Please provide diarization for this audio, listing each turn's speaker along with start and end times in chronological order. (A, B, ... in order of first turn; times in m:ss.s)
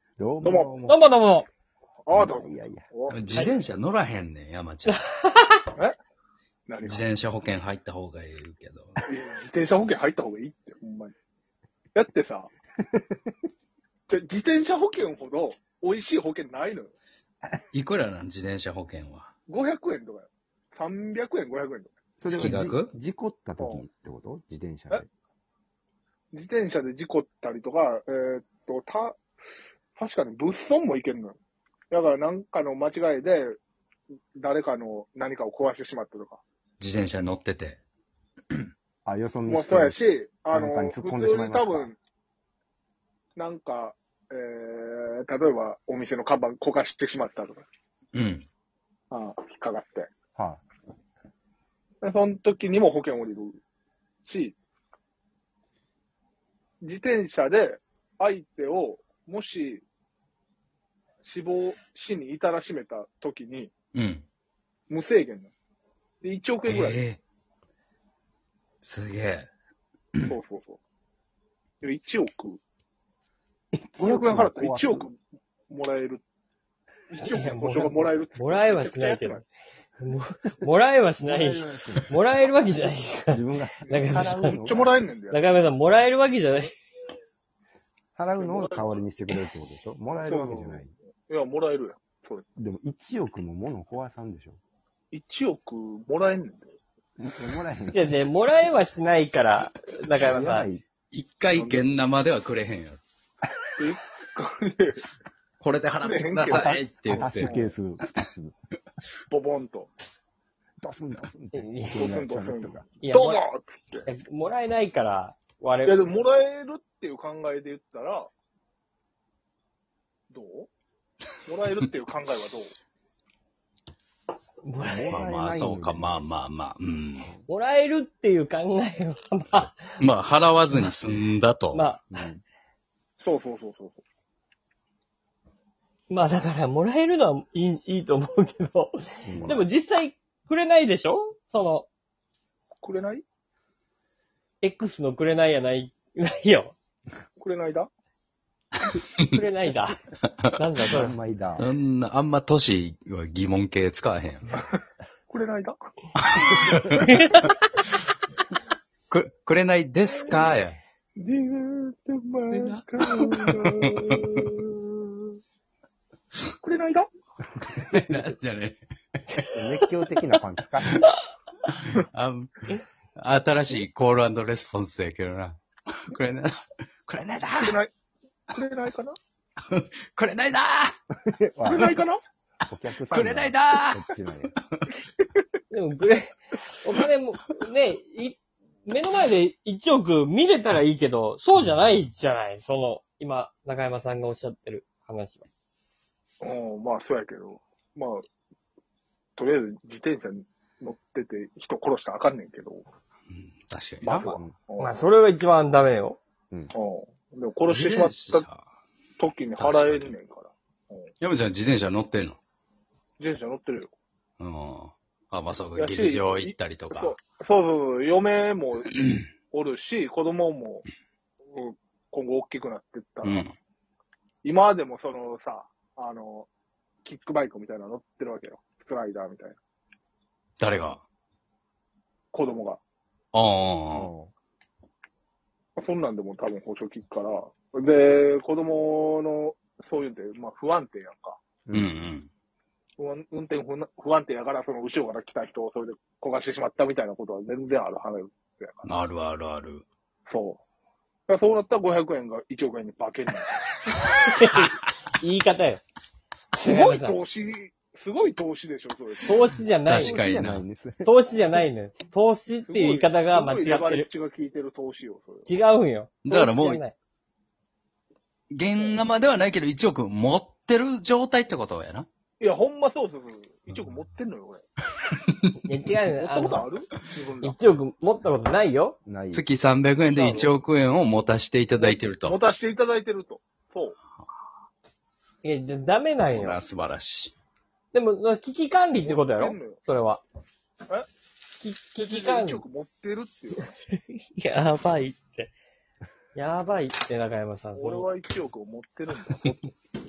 0:00.2-0:01.0 A
0:00.4-0:00.7 B
0:00.9-0:01.5 C
0:02.1-0:03.5 B
0:02.1-0:02.9 A
0:03.1-0:05.0 D
0:04.9-0:05.7 C
0:06.7-0:07.1 B
0:06.8-0:09.0 D
0:09.0-0:11.1 B
0:12.0-0:12.5 B
0:14.1-0:17.0 B
0:17.7-0:19.3 D
0:19.5-0:21.9 B
0:22.2-0:25.1 A
0:22.3-0:22.9 D
0:23.6-0:23.8 B
0:26.3-0:29.2 B
0:30.0-0:31.4 B
0:31.9-0:33.6 B
0:34.4-0:36.4 B
0:36.8-0:37.8 D
0:39.0-0:41.9 A
0:39.5-0:42.0 B
0:43.4-0:47.6 B
0:48.1-0:48.4 D
0:49.1-0:50.1 B
0:50.4-0:50.6 A
0:52.0-0:53.6 B
0:54.2-0:54.6 B
0:56.8-0:59.8 B
1:01.2-1:03.7 B
1:03.9-1:04.2 D
1:04.9-1:05.5 B
1:06.2-1:07.0 B
1:06.7-1:07.2 D
1:08.8-1:09.5 D
1:10.3-1:10.8 B
1:11.8-1:12.6 B
1:13.7-1:15.1 A
1:14.0-1:15.2 B
1:15.7-1:16.2 B
1:17.1-1:19.4 B
1:17.2-1:19.4 C
1:20.0-1:24.6 C
1:21.2-1:22.2 A
1:23.3-1:25.0 A
1:23.8-1:25.4 B
1:25.3-1:26.7 C
1:28.2-1:30.9 A
1:28.4-1:29.0 B
1:30.2-1:32.5 B
1:32.6-1:34.6 A
1:35.1-1:36.7 B
1:37.2-1:38.2 A
1:37.9-1:40.7 C
1:40.2-1:40.8 A
1:41.1-1:43.0 D
1:41.5-1:41.9 B
1:43.8-1:45.0 B
1:45.6-1:47.6 D
1:46.0-1:47.8 B
1:46.5-1:48.5 A
1:49.3-1:49.9 B
1:50.8-1:53.0 A
1:51.5-1:52.2 C
1:52.0-1:54.1 B
1:53.0-1:53.4 C
1:54.1-1:56.0 C
1:55.8-1:58.3 B
2:00.3-2:00.7 B
2:01.4-2:02.7 B
2:04.6-2:05.3 C
2:04.8-2:06.2 A
2:05.1-2:07.3 D
2:07.5-2:09.8 C
2:10.0-2:11.9 D
2:11.7-2:12.0 C
2:12.1-2:12.4 A
2:13.2-2:14.0 B
2:16.1-2:21.9 C
2:19.3-2:19.6 A
2:22.8-2:23.2 B
2:24.6-2:26.8 C
2:27.4-2:27.9 B
2:29.3-2:30.0 C
2:30.6-2:31.1 C
2:30.9-2:31.7 A
2:31.6-2:34.6 D
2:35.3-2:36.9 B
2:36.2-2:37.1 D
2:36.9-2:37.5 C
2:39.1-2:40.8 D
2:41.2-2:45.3 B
2:42.5-2:44.5 D
2:46.6-2:47.1 B
2:47.7-2:48.8 D
2:49.5-2:51.1 A
2:51.7-2:57.8 D
2:57.6-2:57.9 B
2:58.5-2:59.2 B
2:59.7-3:00.9 D
3:01.2-3:02.0 A
3:01.6-3:02.2 B
3:02.7-3:04.5 A
3:03.1-3:04.0 D
3:05.7-3:15.5 C
3:16.4-3:18.2 B
3:19.4-3:22.8 B
3:23.3-3:24.3 D
3:24.0-3:25.0 B
3:24.1-3:24.6 A
3:24.8-3:26.2 C
3:26.7-3:28.5 B
3:27.7-3:28.6 D
3:29.2-3:31.1 B
3:29.6-3:30.2 D
3:31.2-3:32.4 D
3:33.2-3:33.9 B
3:34.4-3:37.2 D
3:35.8-3:40.8 B
3:41.5-3:43.5 B
3:43.2-3:43.6 D
3:44.4-3:46.5 B
3:47.0-3:49.6 B
3:50.6-3:51.0 D
3:52.3-3:52.8 B
3:53.3-3:54.1 D
3:53.9-3:54.3 A
3:55.8-4:01.4 B
4:01.7-4:02.3 D
4:03.0-4:09.0 B
4:08.8-4:09.8 D
4:10.3-4:10.6 B
4:11.3-4:13.6 B
4:14.0-4:15.8 C
4:16.6-4:17.2 C
4:16.6-4:19.5 B
4:19.2-4:20.2 C
4:19.9-4:20.6 D
4:19.9-4:21.2 A
4:21.0-4:24.1 C
4:22.7-4:25.5 B
4:25.5-4:27.0 C
4:26.2-4:26.8 D
4:28.5-4:32.1 D
4:28.8-4:29.1 B
4:32.4-4:34.6 B
4:35.6-4:36.7 C
4:36.2-4:37.6 B
4:37.4-4:39.0 C
4:39.1-4:39.5 A
4:39.3-4:42.4 D
4:40.1-4:40.6 B
4:41.8-4:44.0 B
4:45.4-4:46.6 C
4:46.3-4:47.3 D
4:47.9-4:50.2 C
4:49.0-4:49.8 B
4:51.6-4:52.6 C
4:52.0-4:53.7 B
4:53.6-4:55.5 C
4:56.4-4:58.1 C
4:57.8-4:59.7 B